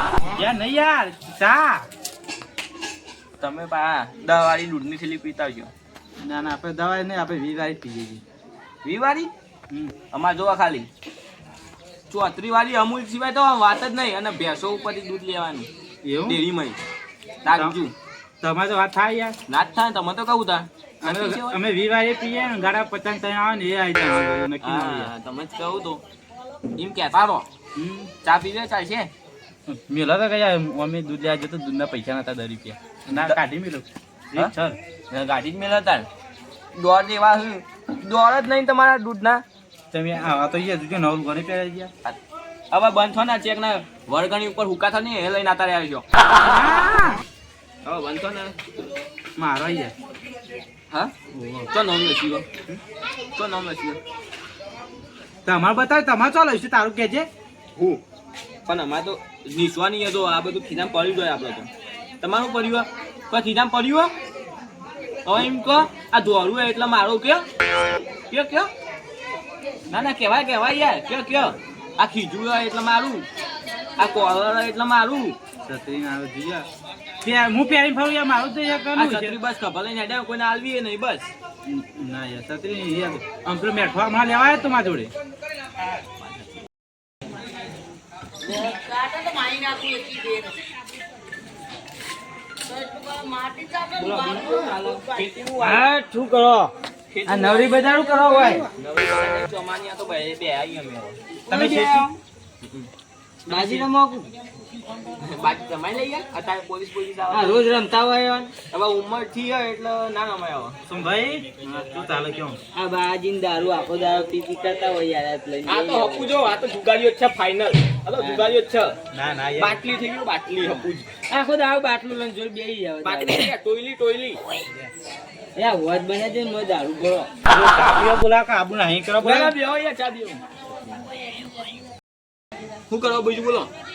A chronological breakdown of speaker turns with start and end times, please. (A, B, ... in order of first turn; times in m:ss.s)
0:00.3-0:01.9 A
0:03.4-0:05.7 B
0:06.2-0:08.2 A
0:08.8-0:09.3 B
0:10.1-0:10.9 B
0:12.1-0:15.7 B
0:16.0-0:16.4 A
0:16.2-0:16.8 B
0:17.4-0:17.9 B
0:17.5-0:17.7 A
0:18.4-0:19.4 A
0:19.5-0:21.6 B
0:21.0-0:25.1 A
0:24.6-0:26.0 B
0:26.8-0:27.5 B
0:27.7-0:28.1 A
0:28.2-0:29.1 B
0:29.7-0:34.8 A
0:33.1-0:33.4 B
0:35.1-0:36.1 B
0:36.7-0:39.4 B
0:39.9-0:41.9 A
0:42.7-0:46.0 B
0:46.4-0:47.2 A
0:47.8-0:48.6 B
0:49.4-0:49.9 A
0:51.3-0:51.7 A
0:51.7-0:52.5 B
0:53.4-0:54.0 B
0:55.4-0:57.3 A
0:57.8-0:58.0 B
0:58.6-1:01.7 B
1:02.2-1:04.1 B
1:05.2-1:07.4 B
1:08.3-1:08.7 B
1:09.9-1:13.3 B
1:14.0-1:15.4 B
1:15.6-1:16.6 A
1:17.2-1:19.4 A
1:19.0-1:21.3 B
1:21.6-1:25.1 A
1:28.6-1:30.5 C
1:32.8-1:35.0 C
1:34.0-1:35.9 B
1:35.6-1:36.7 C
1:37.1-1:37.8 B
1:37.2-1:38.7 C
1:38.8-1:41.2 B
1:41.5-1:42.1 A
1:41.5-1:42.1 C
1:42.6-1:42.9 B
1:43.5-1:43.9 B
1:43.5-1:44.3 C
1:45.2-1:47.7 B
1:47.3-1:48.5 C
1:48.7-1:50.8 B
1:50.9-1:52.6 A
1:52.7-1:56.4 C
1:55.6-1:59.0 B
1:58.2-1:58.5 C
1:59.1-1:59.8 A
1:59.6-2:01.1 B
2:01.3-2:03.5 C
2:03.0-2:04.4 B
2:05.5-2:07.3 C
2:07.4-2:09.6 A
2:09.2-2:10.4 B
2:12.9-2:13.7 B